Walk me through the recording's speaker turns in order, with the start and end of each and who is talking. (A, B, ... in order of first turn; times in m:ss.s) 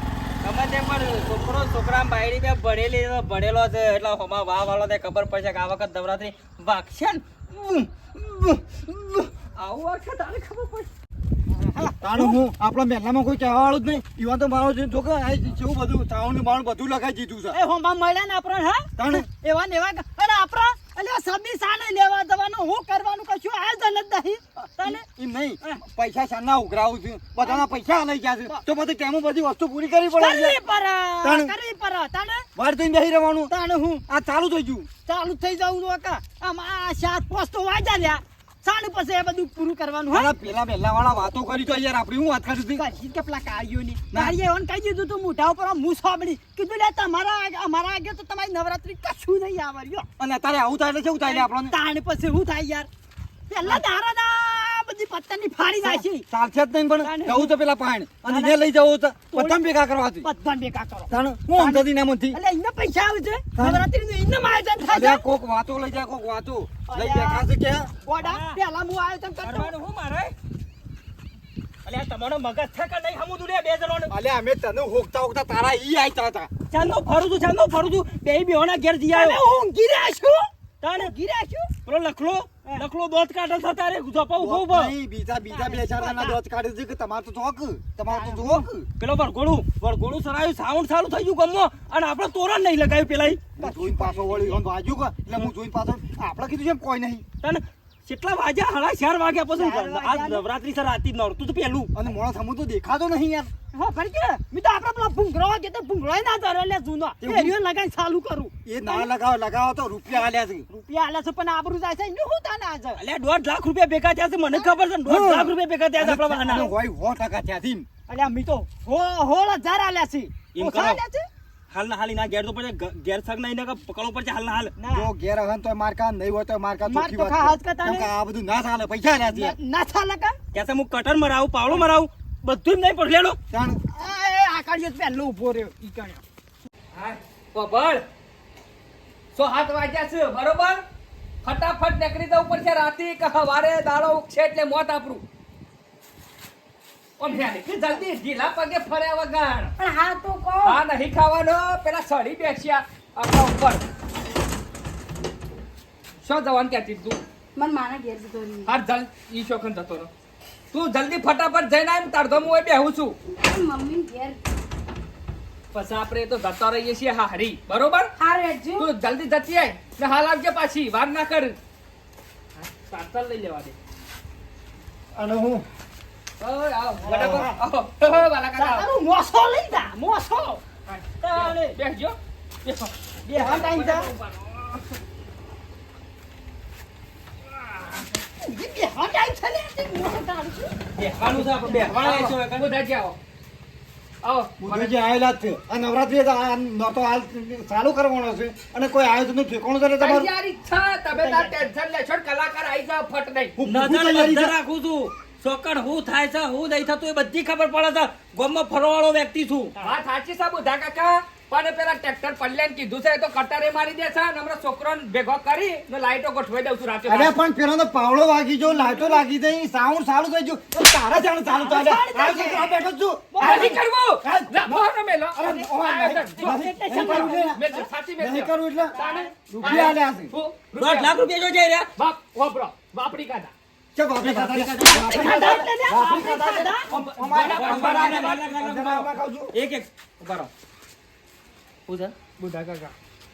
0:00.4-0:10.9 A
0:11.5-0:12.4 B
0:12.0-0:17.6 C
0:17.5-0:25.0 B
0:19.0-0:19.2 C
0:24.6-0:30.6 C
0:27.4-0:27.7 B
0:30.1-0:32.5 B
0:31.2-0:31.5 C
0:32.6-0:33.5 C
0:33.5-0:34.0 B
0:34.0-0:34.9 C
0:35.0-0:40.3 B
0:40.1-0:42.8 C
0:42.7-0:50.0 B
0:50.2-0:51.7 C
0:51.2-0:52.9 B
0:53.5-0:56.2 B
0:55.8-1:00.3 C
0:57.0-0:57.5 B
0:58.2-0:58.6 B
0:59.3-0:59.6 B
1:00.2-1:05.2 B
1:01.1-1:02.4 C
1:03.6-1:03.8 C
1:04.8-1:07.9 C
1:06.9-1:07.5 B
1:08.0-1:09.7 B
1:08.2-1:08.6 A
1:09.4-1:10.3 A
1:11.8-1:14.1 A
1:14.1-1:16.5 C
1:16.7-1:19.4 A
1:19.1-1:20.4 B
1:20.8-1:21.1 A
1:21.0-1:21.7 B
1:21.8-1:24.9 A
1:24.4-1:28.9 C
1:25.5-1:26.4 B
1:28.1-1:28.7 B
1:29.0-1:33.5 A
1:33.6-1:34.6 B
1:33.6-1:37.2 C
1:37.4-1:41.9 A
1:39.5-1:40.4 B
1:41.9-1:43.5 C
1:43.7-1:49.1 B
1:47.2-1:47.5 C
1:48.6-1:50.7 C
1:50.1-1:53.0 B
1:52.9-1:56.7 A
1:55.0-1:57.9 C
1:56.3-1:56.7 B
1:58.1-2:01.3 B
2:00.5-2:01.0 A
2:01.7-2:04.7 A
2:04.8-2:05.1 B
2:04.9-2:09.5 C
2:06.8-2:08.1 B
2:09.2-2:10.4 B
2:10.5-2:13.4 A
2:13.5-2:13.8 C
2:13.9-2:16.2 B
2:16.9-2:18.0 D
2:19.3-2:20.8 D
2:21.4-2:25.2 D
2:27.2-2:29.7 D
2:29.8-2:30.8 E
2:30.6-2:33.8 D
2:36.2-2:37.2 D
2:37.5-2:38.7 E
2:38.7-2:40.1 D
2:40.7-2:43.2 D
2:43.3-2:44.4 E
2:45.7-2:48.1 D
2:48.2-2:48.9 E
2:48.8-2:51.6 D
2:52.6-2:53.7 D
2:55.1-2:55.6 C
2:56.4-2:58.9 D
2:57.0-2:57.6 B
2:58.6-3:00.6 B
3:00.9-3:02.1 D
3:01.2-3:01.7 B
3:02.6-3:04.8 D
3:03.2-3:04.1 B
3:08.4-3:10.8 B
3:11.0-3:12.7 A
3:11.2-3:13.2 D
3:14.2-3:14.9 D
3:14.6-3:20.3 C
3:20.0-3:23.5 D
3:21.1-3:21.7 B
3:23.6-3:24.5 C
3:23.6-3:29.7 A
3:29.7-3:30.0 B
3:29.8-3:37.3 D
3:37.0-3:49.0 C
3:38.7-3:39.2 B
3:41.4-3:42.8 B
3:43.3-3:43.8 B
3:43.4-3:51.1 D
3:46.4-3:47.5 B
3:48.9-3:49.3 B
3:49.5-3:50.3 C
3:50.8-3:51.9 A
3:52.0-3:53.5 D
3:53.9-3:59.5 C
3:54.2-3:55.6 A
3:54.8-3:56.9 B
3:57.2-3:58.4 D
3:57.4-4:00.5 A
4:01.9-4:02.1 A
4:02.4-4:02.9 D